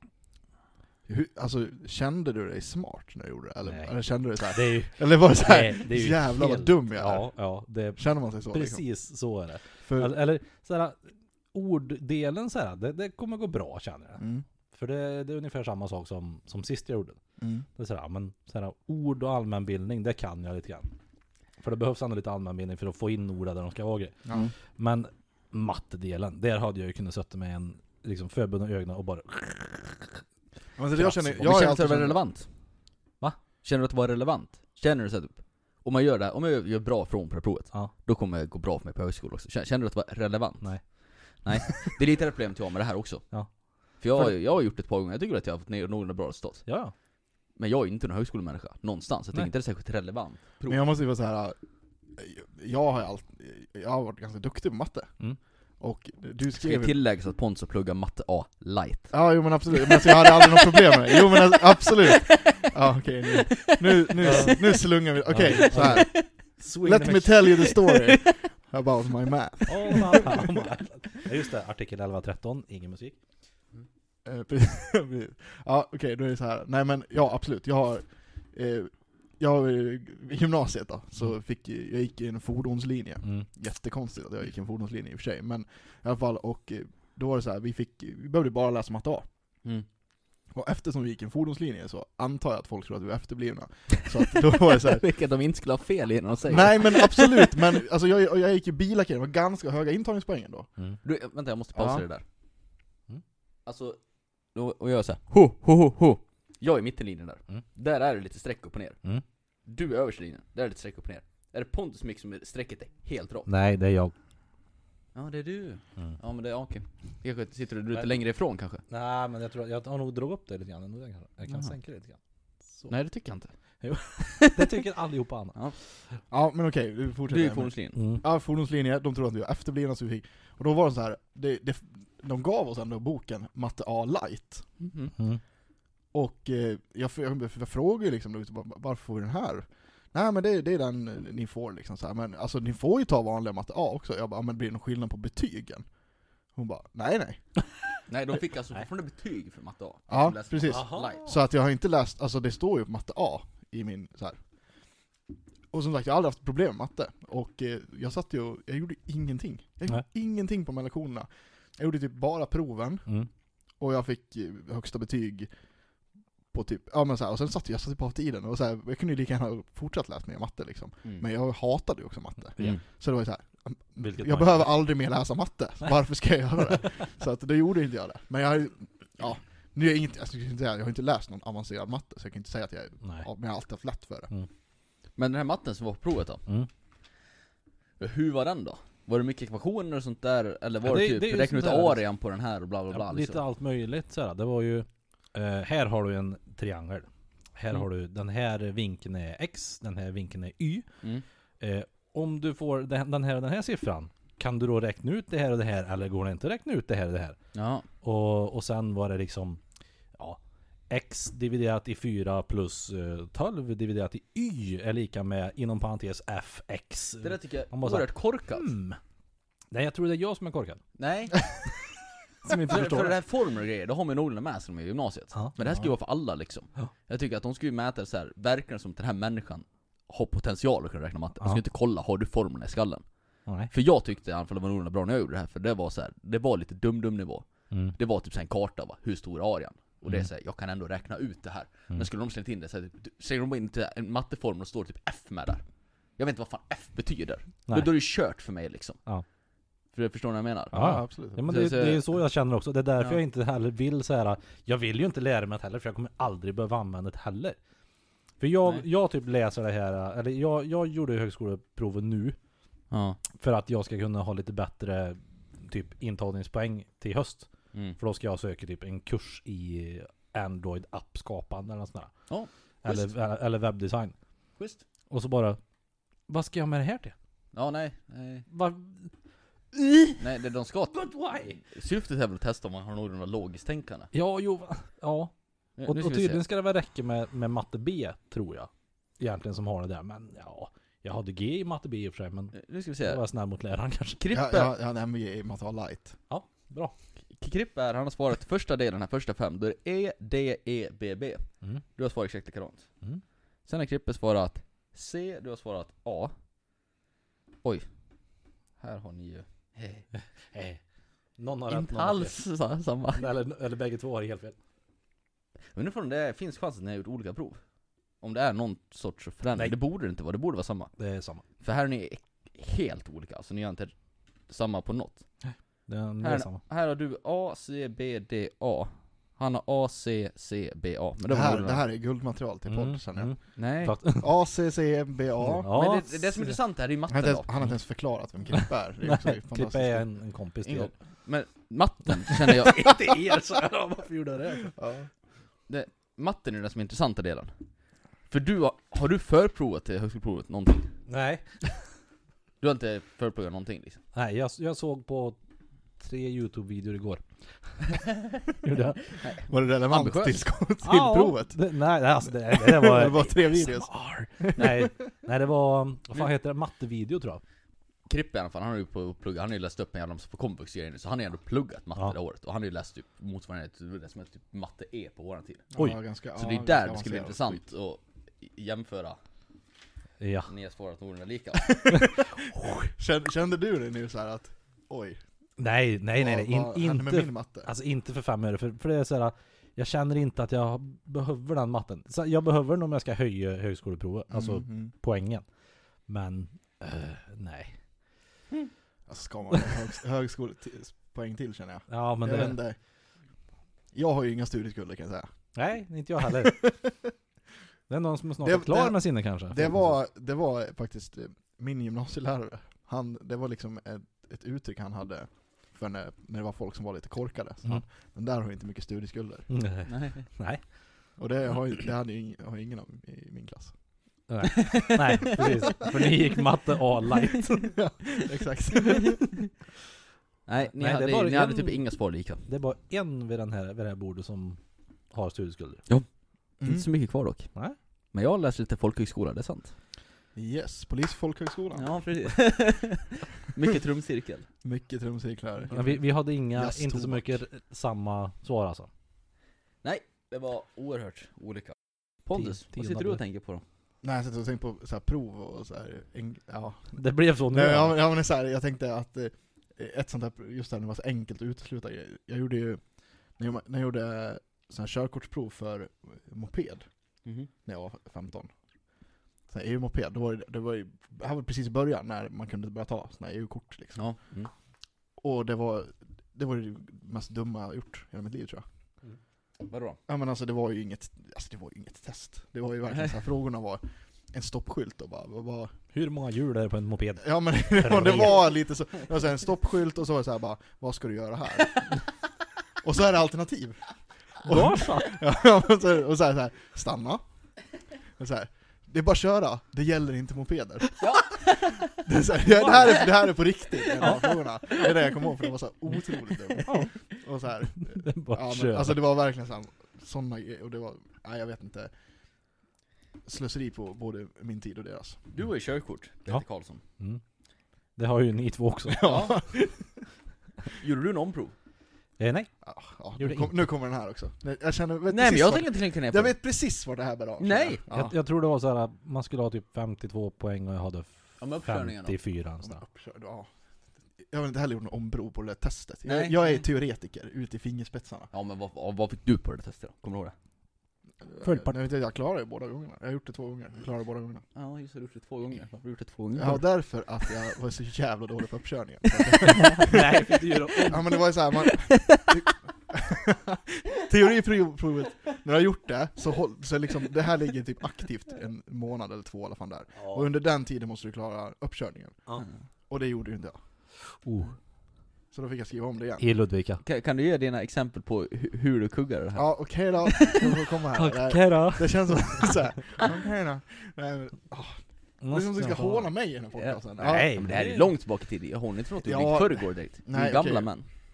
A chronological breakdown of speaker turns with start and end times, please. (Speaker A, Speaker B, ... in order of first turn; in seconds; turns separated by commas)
Speaker A: 1.1-7.3, Speaker B: 3.6-3.9, Speaker B: 4.5-11.0, Speaker A: 8.0-8.8, Speaker A: 9.8-10.1, Speaker B: 11.5-17.2, Speaker A: 14.2-14.4, Speaker A: 17.4-17.6, Speaker B: 17.8-20.9, Speaker B: 21.6-30.2, Speaker A: 24.2-24.5, Speaker A: 30.8-32.2, Speaker B: 31.0-31.3, Speaker C: 31.2-32.5, Speaker C: 33.6-40.9, Speaker C: 41.4-43.2, Speaker C: 44.0-46.7, Speaker B: 46.6-46.9, Speaker C: 47.6-50.8, Speaker A: 50.7-51.6, Speaker A: 52.1-55.1, Speaker A: 55.8-56.9, Speaker C: 56.5-59.1, Speaker A: 59.1-70.5, Speaker C: 59.7-62.7, Speaker C: 63.3-64.9, Speaker B: 64.2-64.6, Speaker B: 65.2-67.4, Speaker C: 65.5-66.3, Speaker C: 67.5-68.4, Speaker B: 69.7-73.2, Speaker C: 69.9-70.3, Speaker A: 74.2-89.2, Speaker A: 90.5-95.0, Speaker C: 94.5-97.6, Speaker A: 96.5-100.7, Speaker C: 101.0-102.2, Speaker A: 101.7-102.0, Speaker C: 103.7-104.0, Speaker C: 104.5-109.0, Speaker C: 109.7-113.5, Speaker B: 113.5-114.1, Speaker C: 115.1-118.8, Speaker B: 118.9-122.2, Speaker C: 122.9-123.5, Speaker B: 123.8-125.6, Speaker C: 124.2-124.8, Speaker A: 126.3-134.7, Speaker C: 127.3-128.0, Speaker B: 128.0-128.2, Speaker C: 134.8-135.1, Speaker B: 135.1-135.4, Speaker A: 136.1-145.8, Speaker A: 146.5-147.4, Speaker C: 148.1-151.3, Speaker A: 150.1-154.4, Speaker B: 150.7-151.2, Speaker A: 155.7-163.1, Speaker A: 163.8-165.5, Speaker A: 166.5-184.3, Speaker B: 174.0-174.7, Speaker B: 183.0-183.3, Speaker C: 185.2-186.4, Speaker C: 188.0-193.4, Speaker B: 190.8-192.0, Speaker B: 192.9-200.8, Speaker B: 201.6-207.3, Speaker C: 207.5-207.9, Speaker B: 208.0-209.6, Speaker B: 210.2-219.0, Speaker C: 217.2-218.7, Speaker B: 219.7-220.8, Speaker C: 221.0-221.5, Speaker B: 222.4-223.1, Speaker C: 222.6-233.0, Speaker B: 233.4-233.7, Speaker C: 233.7-245.6, Speaker C: 246.2-249.0, Speaker C: 249.9-250.8, Speaker A: 250.7-251.5, Speaker B: 250.7-257.6, Speaker C: 251.4-252.1, Speaker B: 258.4-262.4, Speaker C: 262.9-263.2, Speaker B: 263.4-272.1, Speaker C: 267.7-268.0, Speaker C: 272.3-273.1, Speaker B: 272.8-274.1, Speaker C: 274.6-274.8, Speaker B: 275.1-275.6, Speaker B: 276.3-277.1, Speaker C: 277.5-278.5, Speaker B: 278.5-279.1, Speaker B: 279.7-280.2, Speaker C: 280.2-284.1, Speaker B: 280.9-281.6, Speaker B: 284.1-285.3, Speaker C: 285.8-286.4, Speaker B: 285.8-294.2, Speaker C: 292.5-293.2, Speaker C: 294.2-294.7, Speaker A: 294.3-296.2, Speaker B: 296.3-296.9, Speaker C: 297.4-301.4, Speaker C: 301.9-302.9, Speaker C: 303.7-306.3, Speaker C: 308.8-310.1, Speaker B: 310.1-310.8, Speaker B: 311.4-312.4, Speaker C: 311.7-313.3, Speaker B: 313.1-314.6, Speaker C: 315.7-317.6, Speaker C: 318.2-320.9, Speaker B: 321.0-321.4, Speaker C: 321.6-323.9, Speaker C: 324.5-325.2, Speaker B: 325.4-326.6, Speaker C: 326.2-331.8, Speaker A: 331.3-333.3, Speaker B: 332.7-334.3, Speaker C: 333.6-334.0, Speaker A: 334.2-335.7, Speaker B: 335.4-336.6, Speaker C: 335.7-337.5, Speaker A: 337.1-340.1, Speaker B: 338.5-340.9, Speaker C: 340.6-343.2, Speaker B: 342.5-344.7, Speaker A: 344.7-345.1, Speaker C: 345.7-347.5, Speaker C: 348.3-350.9, Speaker B: 351.1-351.8, Speaker C: 352.6-354.0, Speaker B: 354.1-355.4, Speaker B: 356.0-357.8, Speaker B: 358.6-359.1, Speaker C: 359.1-360.4, Speaker A: 359.4-361.6, Speaker B: 360.8-367.4, Speaker A: 362.2-364.9, Speaker C: 368.1-375.7, Speaker A: 375.7-377.6, Speaker C: 376.4-379.2, Speaker B: 380.2-380.5, Speaker C: 380.5-381.8, Speaker A: 381.6-385.2, Speaker B: 381.9-382.9, Speaker B: 385.6-395.4, Speaker A: 386.2-387.7, Speaker A: 394.3-394.9, Speaker B: 396.1-397.8, Speaker A: 399.1-402.8, Speaker B: 401.9-402.6, Speaker A: 403.9-405.3, Speaker B: 405.5-406.6, Speaker A: 406.4-407.1, Speaker B: 407.9-409.9, Speaker A: 408.4-419.5, Speaker B: 419.5-420.6, Speaker C: 419.9-420.3, Speaker A: 421.2-423.7, Speaker B: 424.3-427.7, Speaker C: 424.5-425.2, Speaker A: 425.4-425.9, Speaker A: 427.6-429.3, Speaker C: 428.8-429.2, Speaker C: 430.5-432.4, Speaker B: 430.8-431.8, Speaker B: 432.5-434.6, Speaker B: 435.1-435.8, Speaker A: 436.6-436.9, Speaker C: 436.6-437.5, Speaker C: 438.1-439.7, Speaker A: 440.3-441.9, Speaker C: 441.7-444.5, Speaker A: 444.6-446.0, Speaker B: 445.7-448.9, Speaker A: 446.5-447.4, Speaker C: 449.8-453.6, Speaker B: 452.3-453.2, Speaker A: 454.0-462.8, Speaker B: 456.9-458.0, Speaker A: 463.4-466.9, Speaker C: 467.2-467.5, Speaker A: 467.6-468.5, Speaker A: 469.5-474.1, Speaker C: 474.0-474.5, Speaker A: 475.2-478.6, Speaker C: 479.7-480.0, Speaker A: 480.1-485.7, Speaker B: 485.9-488.5, Speaker A: 487.2-492.0, Speaker A: 492.8-493.8, Speaker A: 494.4-497.2, Speaker B: 494.4-495.2, Speaker A: 498.2-501.2, Speaker C: 501.0-502.0, Speaker A: 501.9-511.9, Speaker C: 502.6-503.1, Speaker C: 503.9-504.9, Speaker B: 506.6-506.9, Speaker B: 507.8-509.0, Speaker A: 513.2-515.2, Speaker C: 515.3-516.8, Speaker B: 518.0-519.2, Speaker A: 518.9-519.9, Speaker C: 519.0-519.3, Speaker C: 520.7-521.5, Speaker B: 522.2-522.5, Speaker A: 522.6-528.1, Speaker B: 523.2-523.6, Speaker C: 525.1-526.3, Speaker C: 527.4-527.8, Speaker B: 527.9-532.8, Speaker C: 531.4-532.2, Speaker A: 532.6-533.5, Speaker A: 534.2-538.3, Speaker C: 536.0-536.6, Speaker C: 538.3-540.3, Speaker A: 541.2-544.4, Speaker B: 541.4-541.8, Speaker C: 544.5-546.6, Speaker A: 546.3-562.2, Speaker C: 549.1-549.9, Speaker B: 549.8-551.0, Speaker C: 551.6-552.4, Speaker B: 560.0-560.3, Speaker A: 562.9-563.6, Speaker B: 564.1-564.5, Speaker A: 565.3-566.2, Speaker B: 566.2-566.8, Speaker C: 566.8-570.5, Speaker A: 569.3-577.6, Speaker B: 570.9-572.5, Speaker B: 575.2-576.1, Speaker C: 576.5-580.9, Speaker B: 577.0-577.9, Speaker A: 579.0-580.7